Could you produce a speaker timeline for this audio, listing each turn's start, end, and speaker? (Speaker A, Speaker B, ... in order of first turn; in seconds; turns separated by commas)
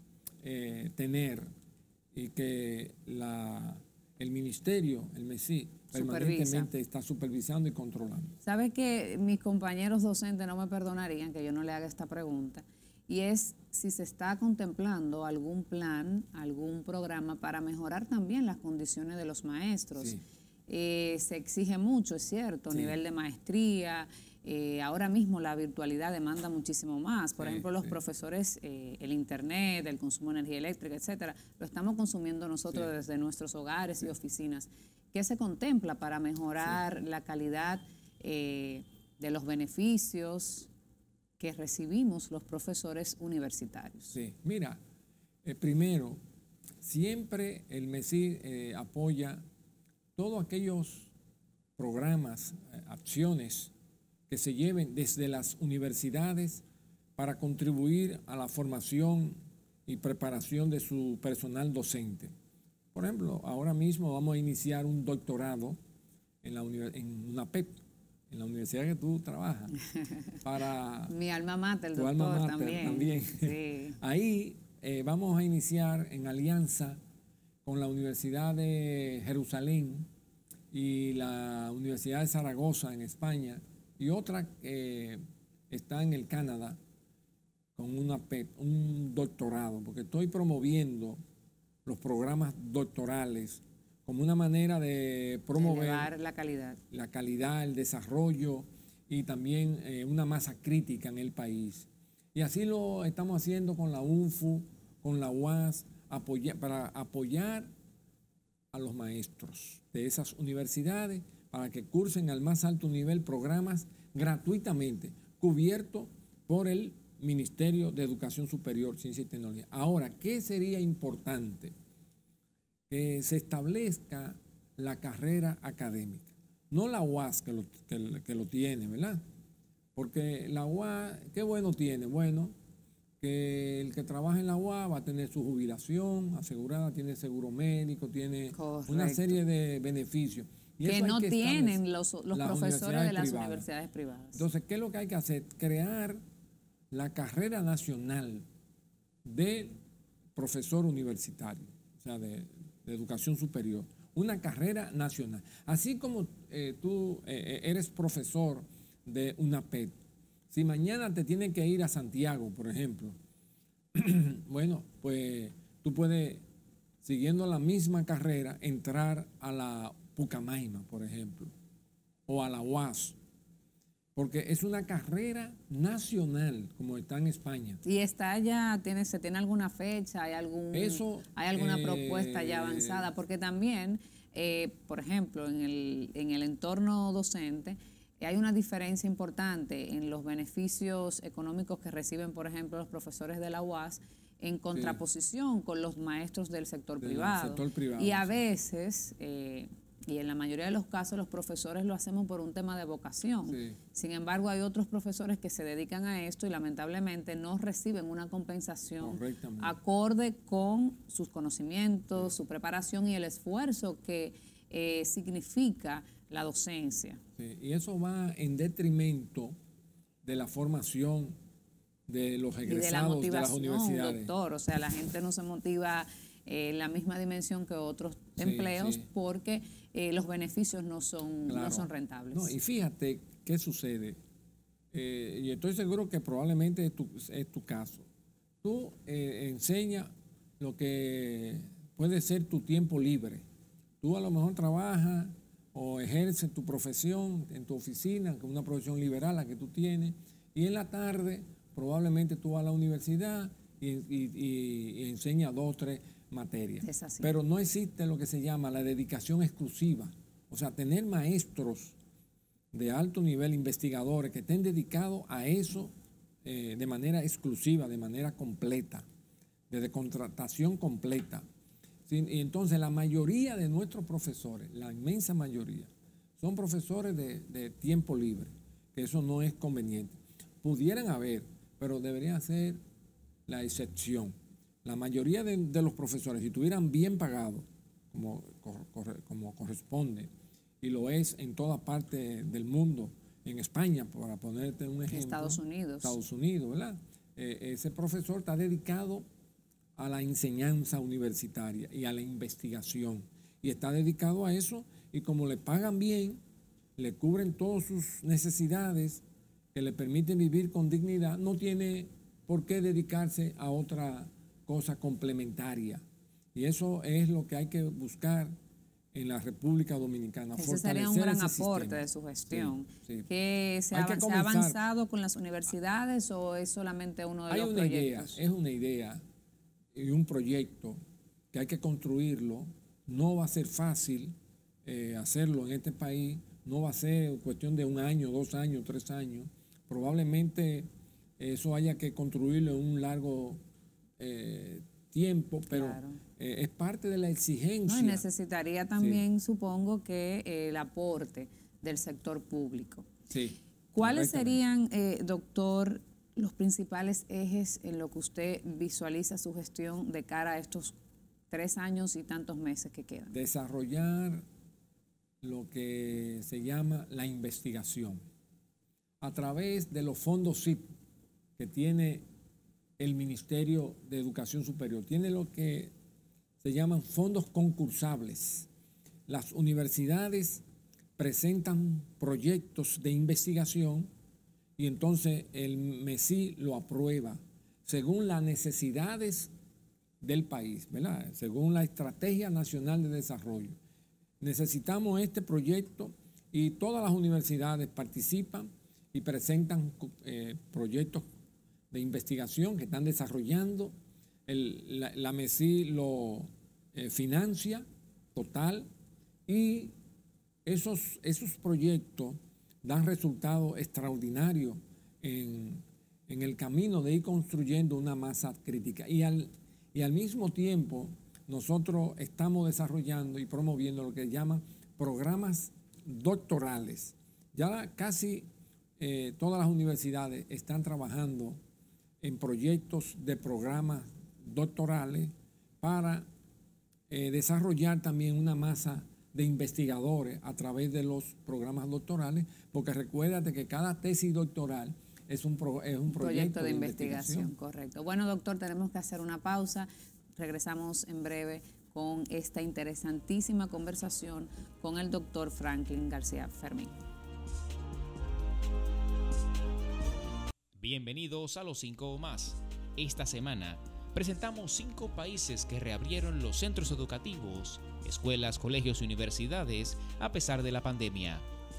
Speaker A: 0.4-1.5, Speaker A: 2.1-8.3, Speaker B: 5.9-6.7, Speaker B: 8.4-20.2, Speaker A: 20.0-20.2, Speaker B: 20.7-40.7, Speaker A: 22.7-23.0, Speaker A: 27.4-28.0, Speaker B: 41.4-44.2, Speaker A: 44.1-44.8, Speaker A: 45.4-46.2, Speaker A: 46.8-49.4, Speaker A: 50.1-51.1, Speaker A: 51.8-53.7, Speaker A: 54.3-56.6, Speaker A: 57.1-62.3, Speaker A: 62.9-65.8, Speaker A: 66.4-67.8, Speaker A: 68.3-69.7, Speaker A: 70.4-71.1, Speaker B: 71.1-74.0, Speaker A: 71.9-77.0, Speaker A: 77.6-80.1, Speaker A: 80.7-86.8, Speaker A: 87.8-91.2, Speaker A: 91.8-96.1, Speaker B: 95.5-96.8, Speaker A: 96.9-107.7, Speaker A: 108.7-121.7, Speaker A: 122.9-129.2, Speaker A: 129.9-132.5, Speaker A: 133.2-141.8, Speaker B: 138.5-139.4, Speaker B: 140.8-144.4, Speaker A: 142.3-143.6, Speaker A: 144.3-146.2, Speaker A: 146.9-148.4, Speaker A: 149.2-149.8, Speaker A: 150.3-159.9, Speaker A: 160.5-163.2, Speaker A: 163.9-166.4, Speaker A: 167.0-171.5, Speaker A: 172.3-173.2, Speaker A: 174.1-177.8, Speaker B: 177.8-217.2, Speaker A: 180.7-183.1, Speaker A: 194.7-195.0, Speaker A: 197.0-198.4, Speaker A: 203.5-203.8, Speaker A: 209.0-209.8, Speaker A: 217.4-219.5, Speaker A: 220.2-221.3, Speaker A: 222.1-224.3, Speaker B: 222.6-232.6, Speaker A: 228.4-229.1, Speaker A: 231.5-234.2, Speaker A: 234.9-238.1, Speaker A: 238.6-243.4, Speaker A: 244.0-261.9, Speaker B: 256.8-257.3, Speaker A: 262.7-265.9, Speaker A: 266.4-269.1, Speaker A: 269.7-271.4, Speaker A: 272.1-282.8, Speaker A: 283.5-290.3, Speaker A: 290.8-299.2, Speaker B: 295.1-296.2, Speaker A: 300.0-306.4, Speaker A: 307.0-309.2, Speaker A: 309.7-316.0, Speaker A: 316.5-318.5, Speaker A: 319.1-323.3, Speaker B: 320.6-328.4, Speaker A: 323.9-324.8, Speaker A: 327.5-329.2, Speaker A: 329.9-331.0, Speaker A: 331.5-334.3, Speaker A: 334.8-343.6, Speaker A: 344.2-348.2, Speaker B: 345.7-346.2, Speaker B: 347.9-353.1, Speaker A: 349.0-349.2, Speaker A: 353.3-354.6, Speaker B: 353.9-360.9, Speaker B: 361.5-363.3, Speaker A: 363.3-364.4, Speaker A: 365.4-368.2, Speaker A: 369.2-370.9, Speaker A: 371.6-372.2, Speaker A: 373.0-375.9, Speaker A: 376.6-378.7, Speaker A: 379.3-380.6, Speaker A: 381.2-384.1, Speaker A: 384.8-389.5, Speaker A: 390.2-393.8, Speaker A: 394.4-401.2, Speaker A: 401.9-403.9, Speaker A: 404.4-408.9, Speaker A: 409.5-409.9, Speaker A: 410.6-428.5, Speaker A: 429.0-431.6, Speaker A: 432.2-436.3, Speaker A: 437.1-447.5, Speaker B: 446.1-456.9, Speaker C: 460.8-471.4